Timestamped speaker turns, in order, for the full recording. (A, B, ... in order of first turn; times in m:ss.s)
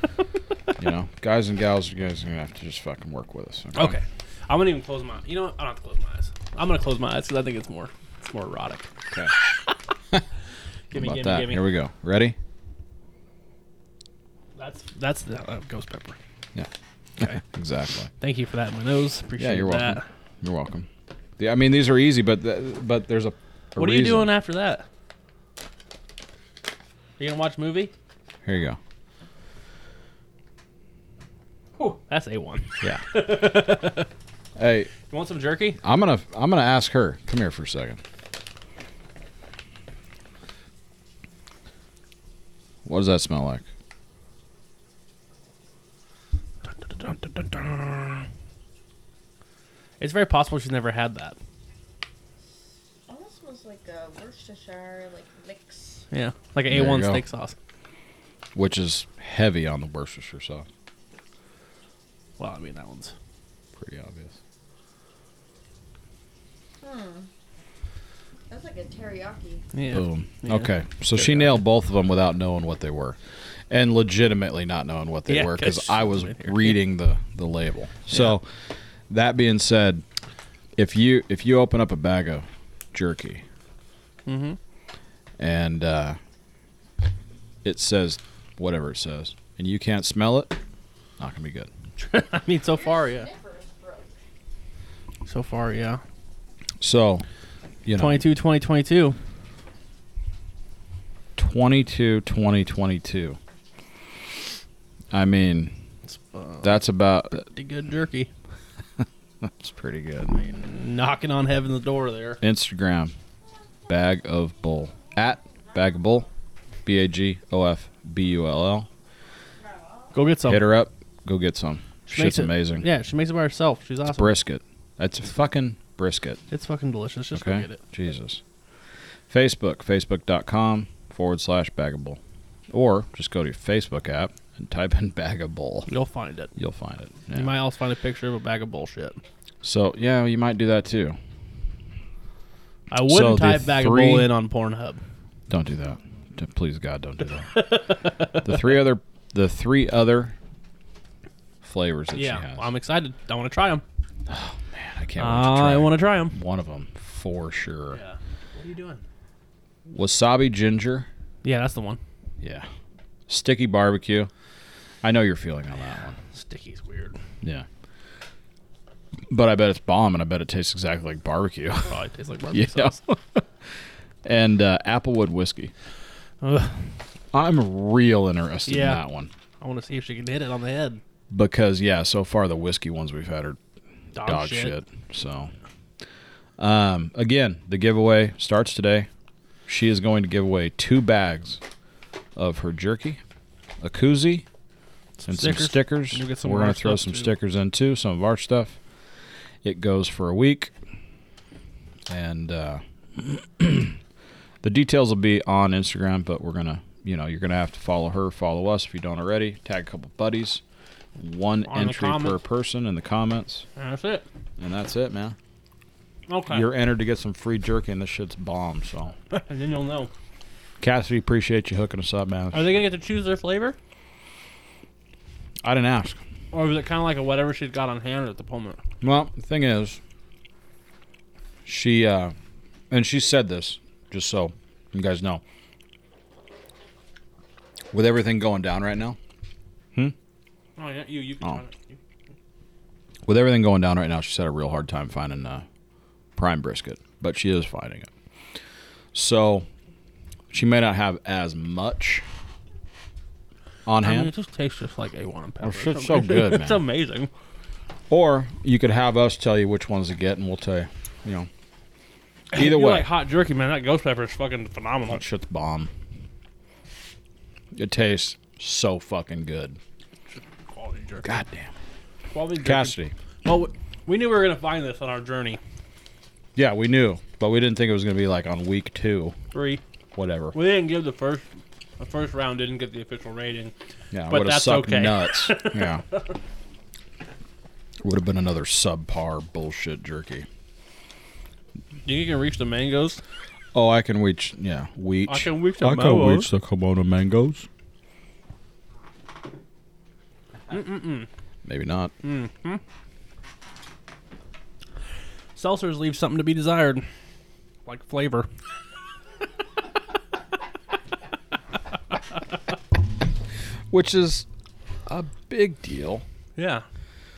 0:00.8-0:04.0 A
0:03.7-0:08.9 B
0:10.9-0:12.4 A
0:10.9-0:11.7 B
0:14.6-0:16.2 B
0:16.5-0:18.1 A
0:18.2-0:20.0 B
0:19.4-0:24.3 A
0:23.8-0:24.8 B
0:27.2-0:27.9 B
0:28.4-0:28.8 A
0:31.8-0:34.1 B
0:34.6-0:34.9 A
0:35.1-0:35.8 B
0:35.8-0:38.0 A
0:42.8-0:43.6 A
0:46.7-0:48.2 B
0:50.0-0:51.4 B
0:53.1-0:56.0 C
0:56.1-0:57.6 B
0:56.7-0:57.2 A
0:58.5-1:00.7 A
1:02.4-1:03.1 B
1:03.8-1:04.3 A
1:06.8-1:07.3 C
1:08.5-1:09.6 C
1:09.7-1:11.5 B
1:09.9-1:13.2 A
1:13.7-1:18.5 A
1:15.2-1:16.8 B
1:19.1-1:20.0 A
1:20.8-1:23.4 A
1:24.2-1:24.6 B
1:25.4-1:26.2 A
1:27.6-1:30.6 A
1:31.2-1:31.7 A
1:32.0-1:33.3 B
1:32.7-1:34.2 C
1:35.2-1:36.0 B
1:36.8-1:37.2 A
1:37.8-1:38.2 A
1:38.0-1:39.2 B
1:41.4-1:43.4 A
1:45.1-1:45.8 A
1:46.1-1:46.7 B
1:46.6-1:47.5 A
1:47.4-1:48.3 B
1:49.4-1:50.4 A
1:50.4-1:52.4 B
1:52.4-1:53.1 A
1:53.9-1:56.3 A
1:56.8-1:58.9 A
2:00.1-2:00.6 B
2:00.5-2:02.9 A
2:02.1-2:04.4 B
2:04.1-2:06.4 A
2:06.5-2:07.8 B
2:07.3-2:08.4 A
2:09.3-2:12.2 A
2:12.7-2:15.9 A
2:15.9-2:16.5 B
2:16.6-2:17.5 A
2:17.3-2:19.2 B
2:19.6-2:21.2 A
2:22.9-2:25.0 B
2:23.0-2:24.3 A
2:25.5-2:27.6 A
2:27.5-2:28.6 B
2:28.3-2:30.3 A
2:31.6-2:32.7 A
2:32.1-2:33.8 B
2:34.3-2:38.0 A
2:35.2-2:36.3 B
2:37.9-2:39.0 B
2:39.9-2:41.1 A
2:41.4-2:42.0 B
2:42.4-2:42.7 A
2:43.3-2:44.3 A
2:45.0-2:46.2 A
2:46.3-2:47.2 B
2:49.3-2:52.0 A
2:51.8-2:53.0 B
2:52.5-2:53.4 A
2:54.2-2:55.7 A
2:56.4-2:56.9 B
2:57.3-2:59.3 A
2:58.7-2:59.0 B
2:59.6-3:01.0 B
3:01.3-3:03.6 A
3:04.1-3:04.8 B
3:04.2-3:05.5 A
3:06.6-3:09.1 A
3:09.7-3:11.6 A
3:12.4-3:13.2 A
3:13.8-3:14.4 A
3:15.2-3:17.3 B
3:15.3-3:18.8 A
3:19.6-3:20.7 A
3:22.1-3:24.0 A
3:24.6-3:30.6 A
3:31.2-3:33.6 A
3:31.7-3:32.4 B
3:33.8-3:34.2 B
3:34.6-3:35.4 A
3:36.3-3:36.7 B
3:36.5-3:39.2 A
3:39.3-3:40.1 B
3:40.8-3:42.6 A
3:42.5-3:43.8 B
3:45.6-3:46.2 A
3:46.5-3:48.8 B
3:49.0-3:50.0 A
3:51.6-3:52.3 A
3:52.9-3:55.4 A
3:57.9-3:59.2 A
4:00.8-4:02.0 B
4:03.2-4:05.6 A
4:06.4-4:08.1 A
4:09.1-4:09.7 A
4:10.5-4:12.2 A
4:13.8-4:14.3 A
4:14.0-4:17.3 B
4:15.6-4:16.8 A
4:18.1-4:21.5 A
4:22.5-4:23.1 A
4:22.5-4:25.2 B
4:25.1-4:25.9 A
4:27.7-4:29.8 A
4:30.3-4:31.3 B
4:31.2-4:31.7 A
4:32.3-4:35.6 B
4:32.6-4:33.1 A
4:36.6-4:39.4 A
4:39.5-4:39.8 B
4:40.1-4:40.6 A
4:40.5-4:43.7 B
4:44.1-4:46.0 A
4:44.3-4:46.3 B
4:48.0-4:50.5 A
4:52.0-4:53.2 B
4:53.7-4:57.7 A
4:55.3-4:56.5 B
5:00.7-5:01.3 B
5:01.6-5:02.1 A
5:02.2-5:02.8 B
5:05.6-5:07.1 B
5:07.8-5:08.5 B
5:13.9-5:14.5 A
5:15.0-5:16.2 A
5:16.6-5:16.8 B